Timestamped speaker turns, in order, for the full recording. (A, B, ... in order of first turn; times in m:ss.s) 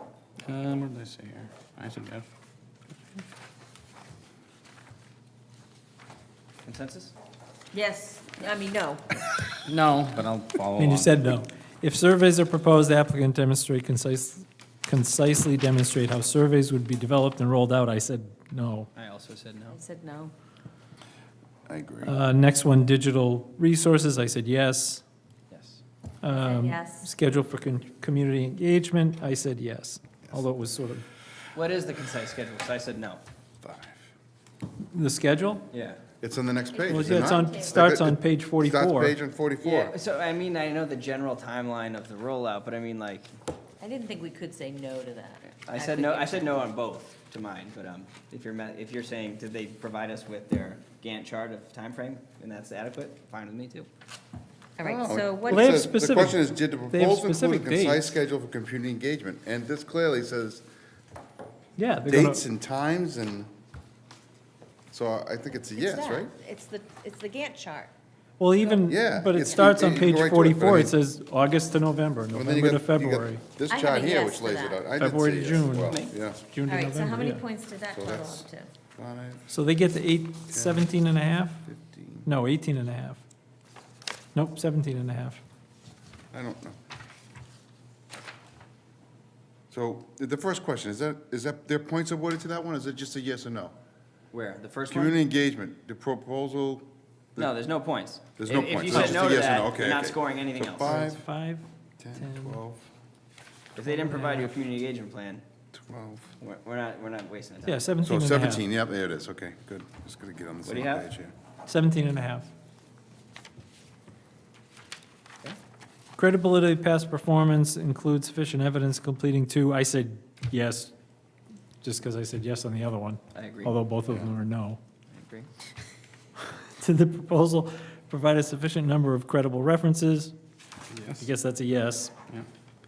0:00.4-0:02.3 A
0:06.6-0:07.1 B
0:07.7-0:09.0 C
0:09.6-0:11.3 A
0:10.7-0:18.9 D
0:18.9-0:19.8 B
0:19.7-0:20.3 C
0:21.7-0:22.1 E
0:22.0-0:25.0 D
0:25.5-0:25.8 B
0:26.2-0:31.0 D
0:26.3-0:27.1 C
0:31.5-0:33.2 B
0:33.6-0:34.0 E
0:34.9-0:35.7 D
0:35.7-0:36.0 B
0:36.2-0:39.9 E
0:36.7-0:37.9 C
0:36.8-0:39.1 D
0:39.6-0:43.3 B
0:43.8-0:46.6 C
0:45.6-0:53.9 B
0:54.8-0:55.8 C
0:54.8-1:00.6 E
0:55.5-0:58.2 D
1:01.8-1:02.4 D
1:02.0-1:03.5 E
1:04.9-1:06.3 E
1:05.8-1:07.9 C
1:08.4-1:13.4 D
1:08.9-1:11.0 E
1:12.3-1:16.4 E
1:13.7-1:14.8 C
1:15.0-1:17.4 D
1:15.9-1:16.1 B
1:16.6-1:18.7 C
1:17.9-1:18.4 E
1:19.0-1:19.4 E
1:19.5-1:21.6 D
1:20.5-1:20.8 E
1:21.7-1:22.3 E
1:22.2-1:23.2 D
1:24.3-1:25.4 D
1:26.3-1:26.8 E
1:29.7-1:33.7 E
1:34.3-1:35.2 B
1:34.9-1:37.5 E
1:37.4-1:40.9 B
1:38.4-1:41.2 E
1:40.8-1:41.6 D
1:42.0-1:42.8 E
1:42.2-1:42.6 D
1:43.8-1:45.4 B
1:43.8-1:44.4 D
1:45.7-1:46.3 E
1:46.4-1:47.9 B
1:47.6-1:48.6 D
1:48.0-1:51.3 E
1:50.6-1:51.1 B
1:51.6-1:52.5 D
1:56.2-2:00.9 D
2:01.8-2:04.8 D
2:03.3-2:03.7 B
2:05.1-2:05.5 B
2:06.5-2:10.3 D
2:10.9-2:11.2 A
2:11.2-2:12.1 D